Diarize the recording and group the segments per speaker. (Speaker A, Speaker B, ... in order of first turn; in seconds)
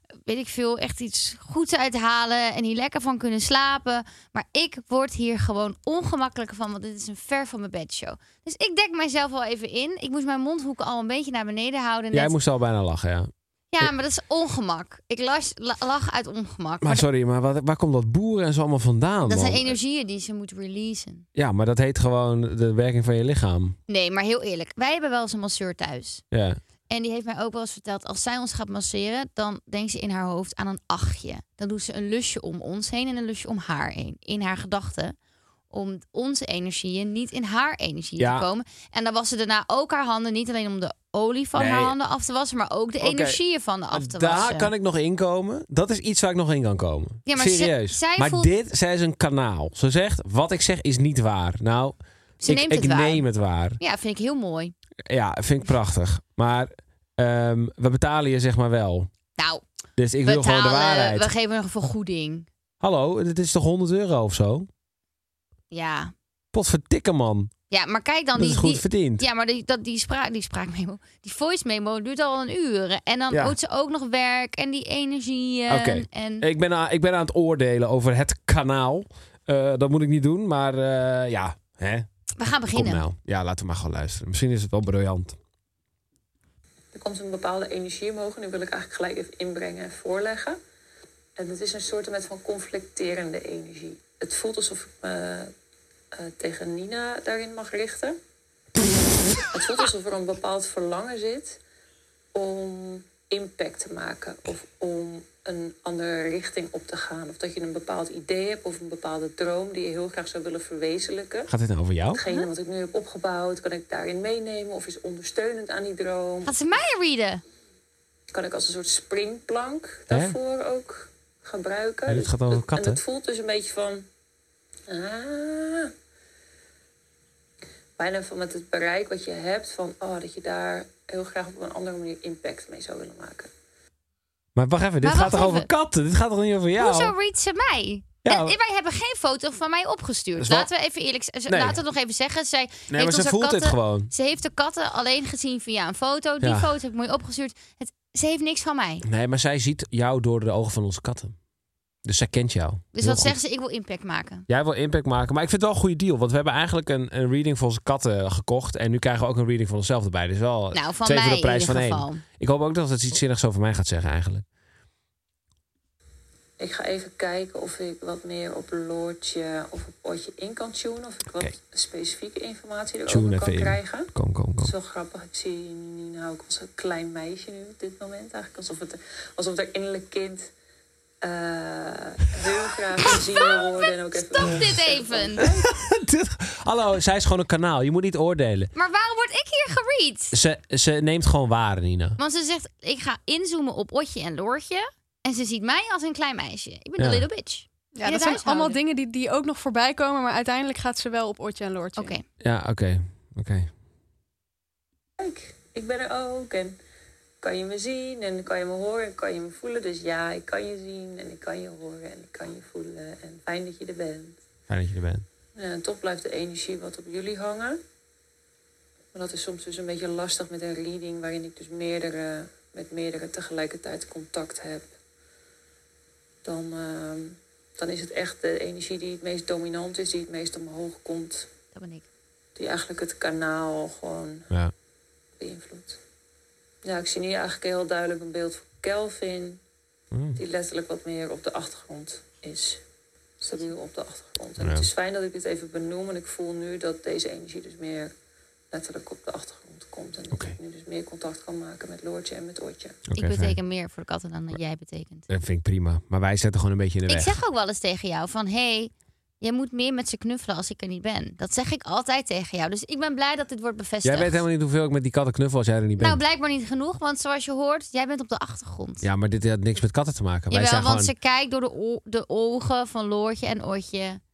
Speaker A: 0.2-12.3, 13.7-17.1, 19.2-21.2, 23.9-26.2, 26.9-35.1, 35.7-44.7, 47.3-48.5, 52.4-53.2, 53.8-54.7, 59.4-59.6, 60.2-62.5, 65.7-66.1, 67.7-76.5, 82.4-83.0, 116.5-117.4, 135.0-135.7, 136.8-149.1, 152.9-154.4, 160.7-162.2, 183.2-185.5, 188.8-190.3, 192.2-198.8, 202.0-202.2, 231.7-232.1, 253.1-255.3, 257.1-264.4, 266.0-269.1, 270.5-274.2
Speaker B: 12.1-13.9, 16.8-19.8, 21.4-23.8, 26.3-26.6, 38.2-38.5, 41.5-42.0, 43.0-43.4, 43.9-53.8, 55.1-59.1, 60.0-61.3, 62.8-64.7, 66.5-67.5, 68.3-69.2, 73.3-73.6, 75.7-82.1, 82.7-85.4, 111.5-112.2, 120.1-120.4, 122.1-123.0, 134.6-137.1, 138.2-138.6, 140.4-140.7, 141.5-141.8, 142.9-144.1, 146.4-146.7, 149.0-151.4, 152.1-153.4, 154.5-164.4, 173.1-174.7, 185.4-188.7, 190.3-192.2, 197.0-197.2, 202.4-203.7, 214.7-215.3, 240.1-240.4, 244.6-244.9, 250.3-250.6, 253.1-253.6, 255.3-257.3, 264.0-266.2, 269.0-271.1
Speaker C: 86.9-90.6, 91.4-95.5, 96.1-98.2, 99.5-101.6, 102.3-111.5, 112.1-116.5, 118.3-124.1, 124.9-125.9, 128.0-133.5, 166.6-174.1, 174.6-180.5, 181.2-185.7, 205.2-206.8, 207.4-214.4, 215.6-217.8, 219.1-224.8, 226.4-231.5, 232.6-234.5, 235.4-236.0, 236.8-239.6, 240.3-242.8, 243.4-248.1, 248.7-253.0
Speaker D: 197.9-202.2